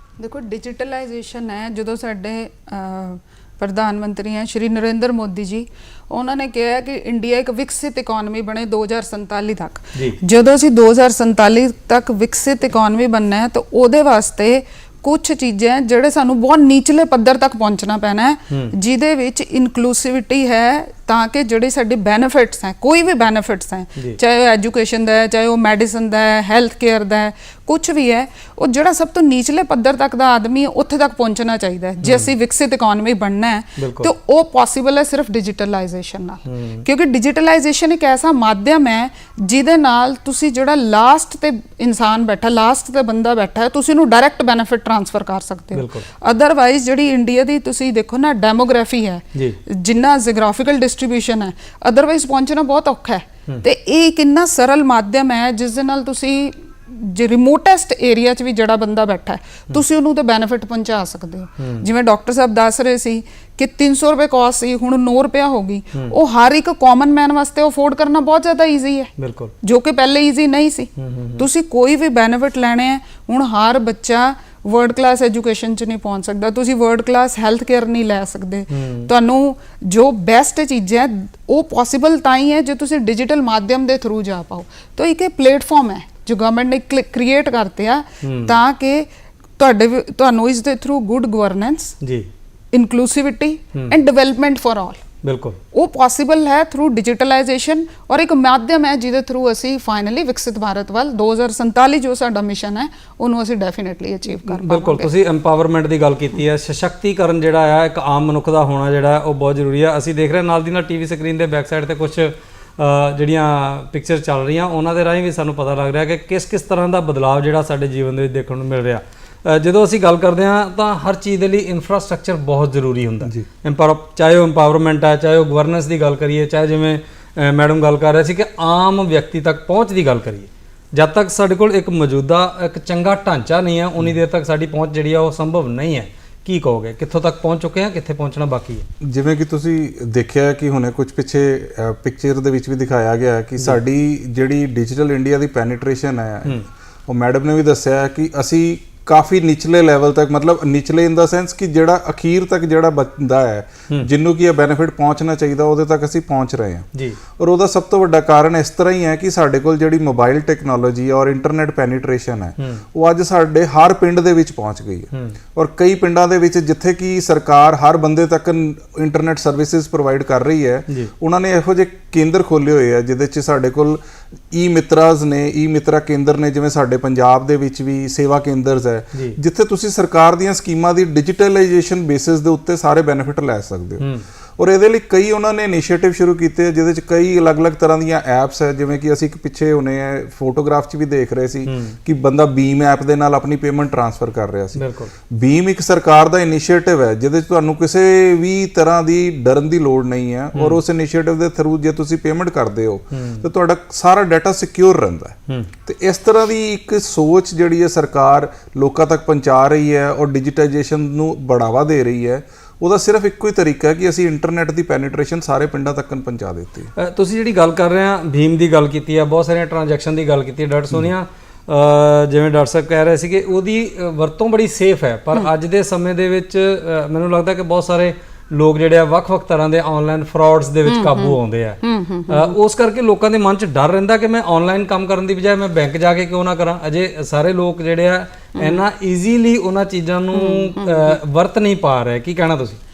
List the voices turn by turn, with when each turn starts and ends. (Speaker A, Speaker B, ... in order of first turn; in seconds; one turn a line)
Speaker A: 0.2-89.1
Speaker B: 32.0-32.3
Speaker B: 33.8-34.1
Speaker B: 36.5-36.8
Speaker B: 45.7-46.0
Speaker B: 61.6-61.9
Speaker B: 69.2-69.5
Speaker B: 71.0-71.5
Speaker B: 78.7-79.1
Speaker B: 88.2-88.6
Speaker A: 89.6-92.0
Speaker B: 92.0-92.3
Speaker A: 92.7-95.0
Speaker B: 95.2-95.6
Speaker A: 95.7-105.1
Speaker B: 104.3-138.8
Speaker C: 123.2-123.5
Speaker C: 139.0-174.0
Speaker B: 165.1-165.4
Speaker C: 174.5-184.1
Speaker B: 184.0-184.2
Speaker C: 184.6-216.9
Speaker B: 191.7-191.9
Speaker B: 194.8-195.1
Speaker B: 200.5-200.8
Speaker B: 203.1-203.5
Speaker B: 216.9-242.8
Speaker A: 230.8-232.6
Speaker A: 238.6-238.8
Speaker A: 240.3-241.2